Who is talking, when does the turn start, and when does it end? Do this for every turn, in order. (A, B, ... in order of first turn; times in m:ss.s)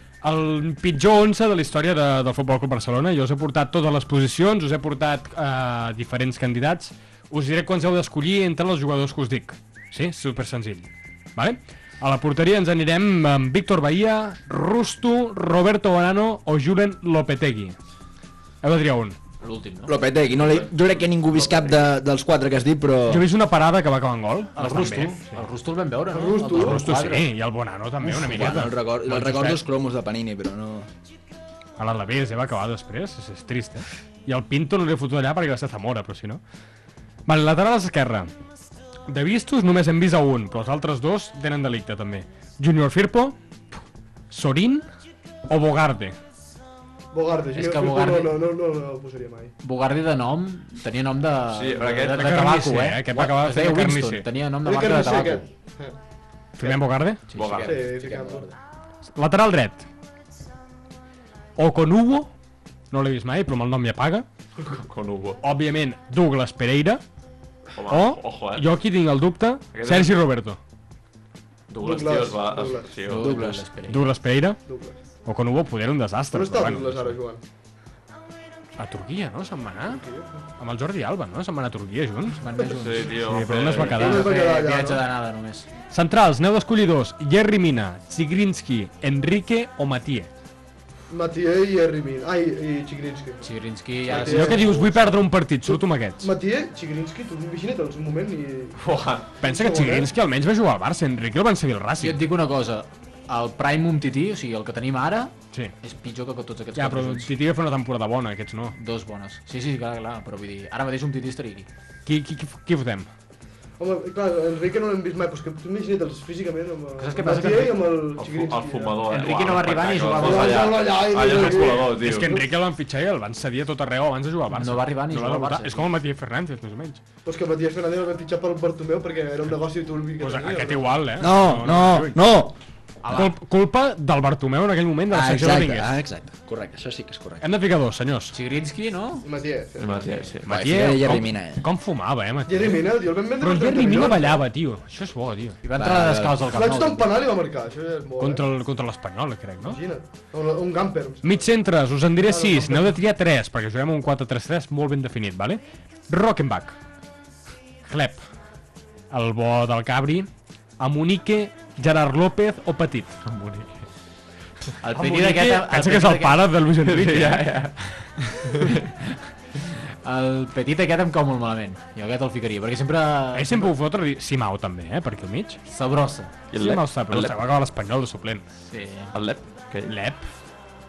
0:00.2-0:17.8 A
0:18.6-0:19.2 A
0:19.4-0:19.9 B
0:19.9-0:23.2 C
0:20.3-0:21.8 D
0:23.1-0:25.4 A
0:24.6-0:27.3 B
0:26.1-0:26.8 E
0:26.6-0:29.6 A
0:28.0-0:30.9 C
0:31.8-0:36.4 A
0:37.2-0:38.3 A
0:39.1-0:43.4 A
0:44.3-0:44.9 A
0:45.5-0:46.2 A
0:47.1-0:49.5 E
0:47.5-0:48.4 B
0:49.6-0:55.4 B
0:51.5-0:52.3 D
0:52.2-0:54.3 A
0:54.6-0:55.9 E
0:56.6-0:57.3 A
0:57.3-0:58.3 B
0:57.3-0:58.1 D
0:57.6-0:58.4 E
0:59.2-0:59.9 A
1:01.6-1:02.3 A
1:02.9-1:04.2 A
1:04.7-1:05.4 D
1:05.4-1:07.0 A
1:07.8-1:08.6 D
1:07.9-1:10.6 A
1:09.7-1:10.1 D
1:11.7-1:13.4 D
1:11.8-1:13.0 E
1:13.1-1:14.0 B
1:13.2-1:13.6 C
1:13.9-1:14.6 A
1:14.7-1:15.0 E
1:15.2-1:17.2 A
1:16.3-1:17.4 E
1:18.8-1:20.0 A
1:19.8-1:20.3 E
1:20.6-1:22.4 A
1:22.4-1:23.2 B
1:22.7-1:24.0 D
1:23.2-1:24.3 A
1:23.8-1:25.7 B
1:23.9-1:25.0 E
1:25.9-1:30.3 A
1:31.1-1:33.5 E
1:33.4-1:34.9 B
1:34.0-1:35.1 E
1:34.1-1:36.3 A
1:35.7-1:38.8 E
1:38.8-1:39.3 D
1:39.4-1:40.1 E
1:39.4-1:42.2 A
1:42.0-1:47.3 B
1:46.8-1:48.7 A
1:48.7-1:51.7 B
1:52.0-1:53.1 A
1:53.8-1:59.0 E
1:57.0-1:57.9 B
1:58.2-2:02.3 D
1:59.1-2:00.8 B
2:00.2-2:02.4 E
2:01.3-2:07.0 A
2:04.5-2:05.9 B
2:07.2-2:11.0 E
2:10.2-2:12.2 A
2:11.2-2:12.6 C
2:13.0-2:13.3 B
2:13.1-2:15.9 A
2:15.1-2:17.4 C
2:17.4-2:18.3 A
2:18.3-2:19.3 B
2:19.2-2:20.2 E
2:19.8-2:20.5 D
2:20.4-2:25.6 A
2:20.5-2:21.7 C
2:22.5-2:24.4 E
2:25.6-2:27.0 B
2:25.8-2:26.4 C
2:26.5-2:28.4 E
2:28.2-2:29.8 A
2:29.6-2:31.5 E
2:31.2-2:36.7 A
2:32.2-2:33.0 E
2:37.8-2:38.2 A
2:39.1-2:40.3 A
2:40.8-2:43.2 A
2:43.2-2:43.7 D
2:44.8-2:46.5 B
2:44.9-2:47.5 A
2:46.8-2:47.7 D
2:48.7-2:53.5 B
2:53.3-2:55.6 A
2:55.7-2:56.3 B
2:56.5-2:57.3 D
2:56.5-2:58.5 A
2:58.7-2:59.1 B
2:59.1-2:59.9 D
2:59.9-3:00.2 A